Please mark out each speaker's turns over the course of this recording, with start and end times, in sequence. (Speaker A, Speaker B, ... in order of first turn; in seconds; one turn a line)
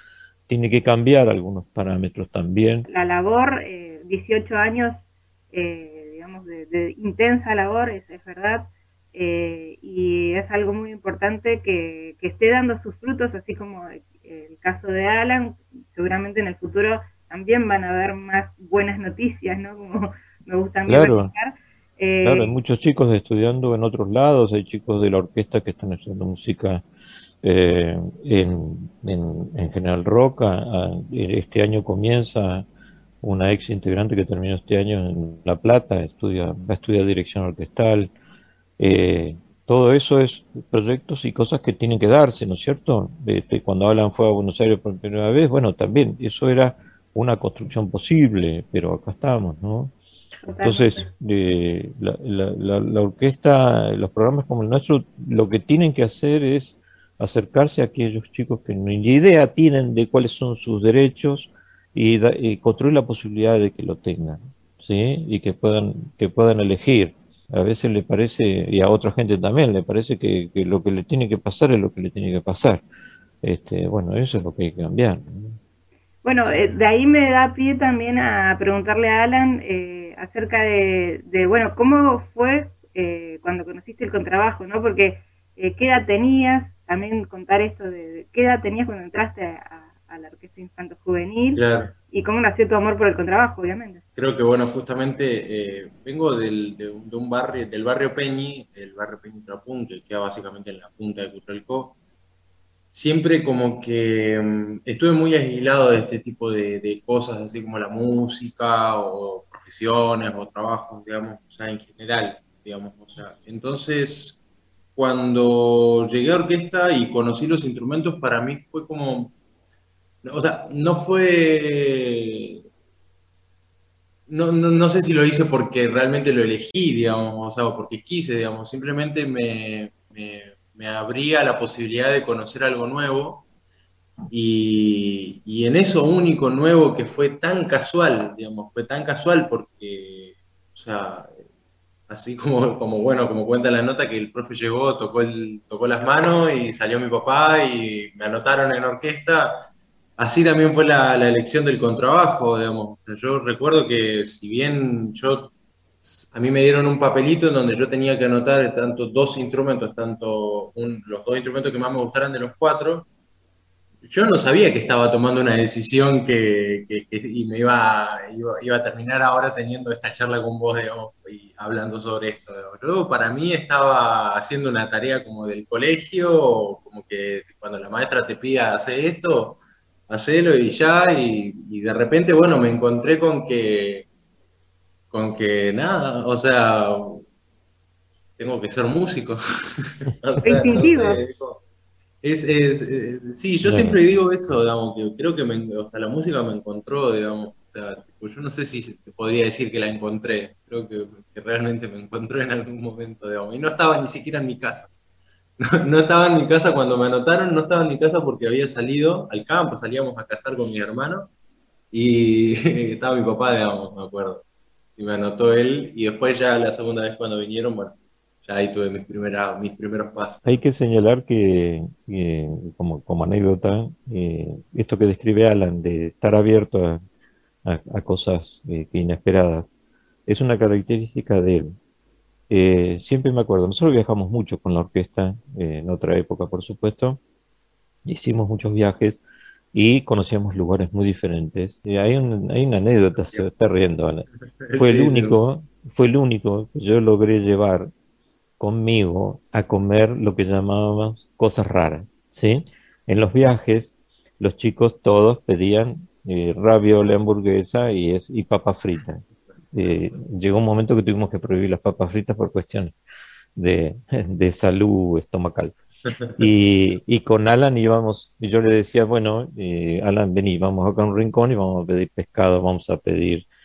Speaker A: 0.5-2.9
Speaker B: 2.9-22.6
Speaker A: 20.9-21.3
Speaker A: 22.2-26.8
Speaker A: 27.4-32.6
Speaker A: 33.2-38.1
Speaker A: 38.8-49.9
Speaker B: 50.4-51.1
Speaker A: 50.6-72.8
Speaker A: 73.4-75.6
Speaker B: 76.2-94.0
Speaker C: 91.5-91.9
Speaker C: 94.2-101.9
Speaker C: 102.9-114.4
Speaker C: 115.0-119.3
Speaker C: 120.2-122.6
Speaker C: 124.3-133.4
Speaker C: 134.3-141.4
Speaker C: 142.1-149.6
Speaker C: 150.2-163.1
Speaker C: 164.0-184.1
Speaker C: 185.1-187.2
Speaker C: 188.4-191.6
Speaker B: 190.4-191.2
Speaker C: 192.2-204.9
Speaker A: 193.6-194.0
Speaker C: 205.6-211.3
Speaker C: 211.9-214.4
Speaker C: 215.0-220.6
Speaker A: 220.4-227.0
Speaker A: 227.7-229.7
Speaker A: 230.3-231.8
Speaker A: 232.5-237.2
Speaker A: 238.1-239.2
Speaker A: 239.7-247.9
Speaker C: 244.6-245.3
Speaker A: 248.6-262.9
Speaker A: 263.6-265.8
Speaker A: 266.4-273.4